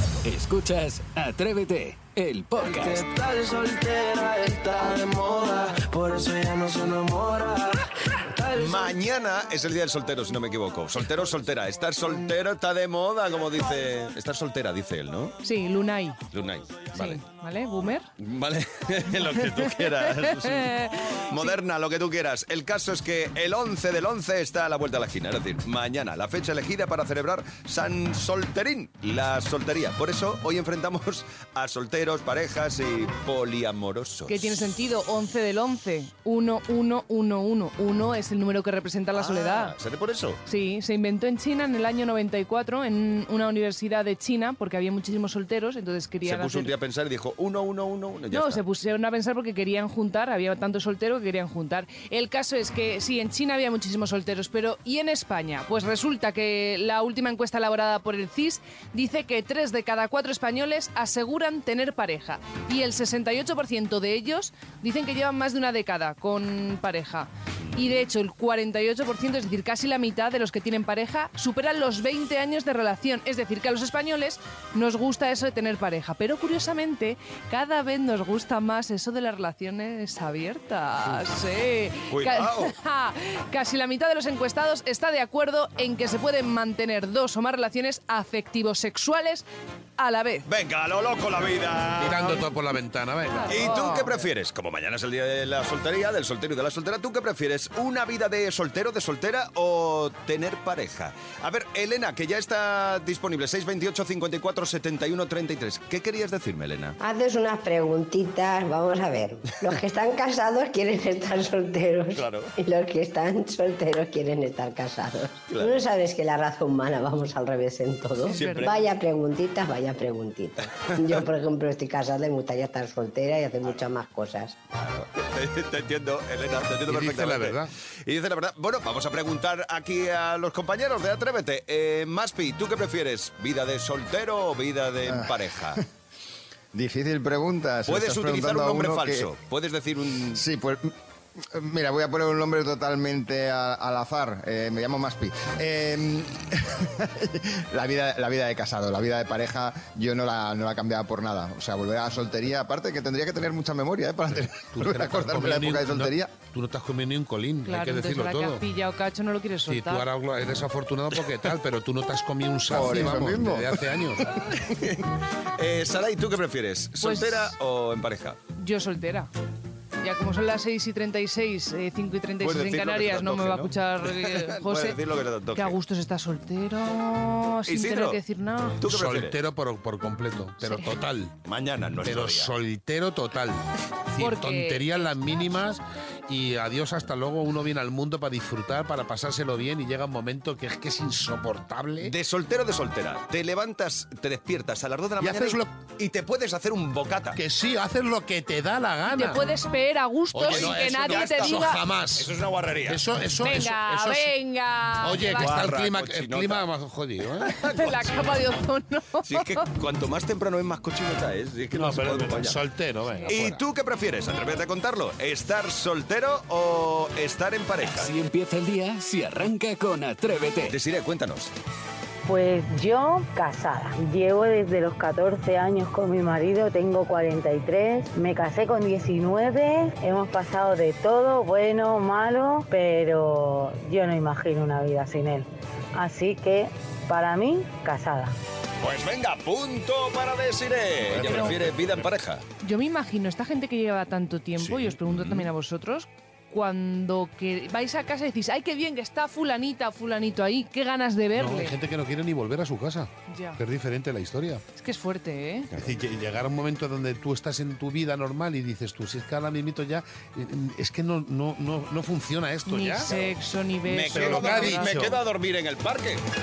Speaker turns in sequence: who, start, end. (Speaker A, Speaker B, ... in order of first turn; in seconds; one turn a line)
Speaker A: 0.2-3.1
Speaker B: 2.7-8.9
Speaker C: 8.6-15.3
Speaker D: 15.4-16.2
Speaker C: 16.3-17.2
Speaker D: 16.9-18.1
Speaker C: 18.2-34.6
Speaker D: 20.0-21.6
Speaker D: 34.3-39.7
Speaker C: 39.1-40.4
Speaker D: 40.5-46.8
Speaker C: 46.2-48.6
Speaker D: 48.3-89.4
Speaker C: 82.1-82.7
Speaker D: 90.0-90.4
Speaker C: 90.5-92.4
Speaker E: 92.0-93.7
Speaker D: 93.3-94.1
Speaker C: 93.5-107.0
Speaker F: 107.0-124.6
Speaker C: 112.1-112.5
Speaker C: 115.5-115.8
Speaker D: 118.3-118.7
Speaker C: 118.3-118.8
Speaker C: 124.7-135.8
Speaker E: 126.9-127.7
Speaker G: 135.1-135.8
Speaker G: 136.7-139.3
Speaker C: 137.9-140.4
Speaker G: 140.3-156.3
Speaker E: 154.6-158.6
Speaker D: 157.6-160.1
Speaker E: 159.7-164.4
Speaker G: 162.7-163.8
Speaker C: 164.5-168.4
Speaker D: 167.0-167.5
Speaker D: 168.6-169.3
Speaker D: 170.0-175.0
Speaker C: 172.4-175.8
Speaker D: 175.5-178.8
Speaker C: 177.7-178.2
Speaker C: 178.8-179.4
Speaker E: 178.9-181.3
Speaker C: 181.4-182.5
Speaker E: 182.0-192.1
Speaker D: 184.2-185.0
Speaker C: 192.0-197.4
Speaker E: 195.2-195.7
Speaker E: 197.3-199.4
Speaker D: 199.1-201.8
Speaker E: 200.3-202.3
Speaker C: 200.4-203.1
Speaker E: 202.9-204.3
Speaker D: 203.4-205.6
Speaker E: 205.0-207.5
Speaker C: 205.3-206.7
Speaker C: 207.4-208.1
Speaker D: 207.7-209.6
Speaker C: 209.3-212.6
Speaker E: 211.7-213.6
Speaker C: 213.3-218.1
Speaker A: 217.8-220.8
Speaker C: 220.7-221.5
Speaker H: 222.3-238.3
Speaker C: 238.8-242.4
Speaker E: 241.1-242.1
Speaker D: 242.6-251.8
Speaker E: 244.6-244.9
Speaker C: 245.1-245.5
Speaker E: 251.3-254.6
Speaker D: 253.3-253.6
Speaker D: 254.8-255.7
Speaker E: 255.8-263.3
Speaker D: 262.7-264.9
Speaker C: 263.8-266.2
Speaker E: 264.1-265.2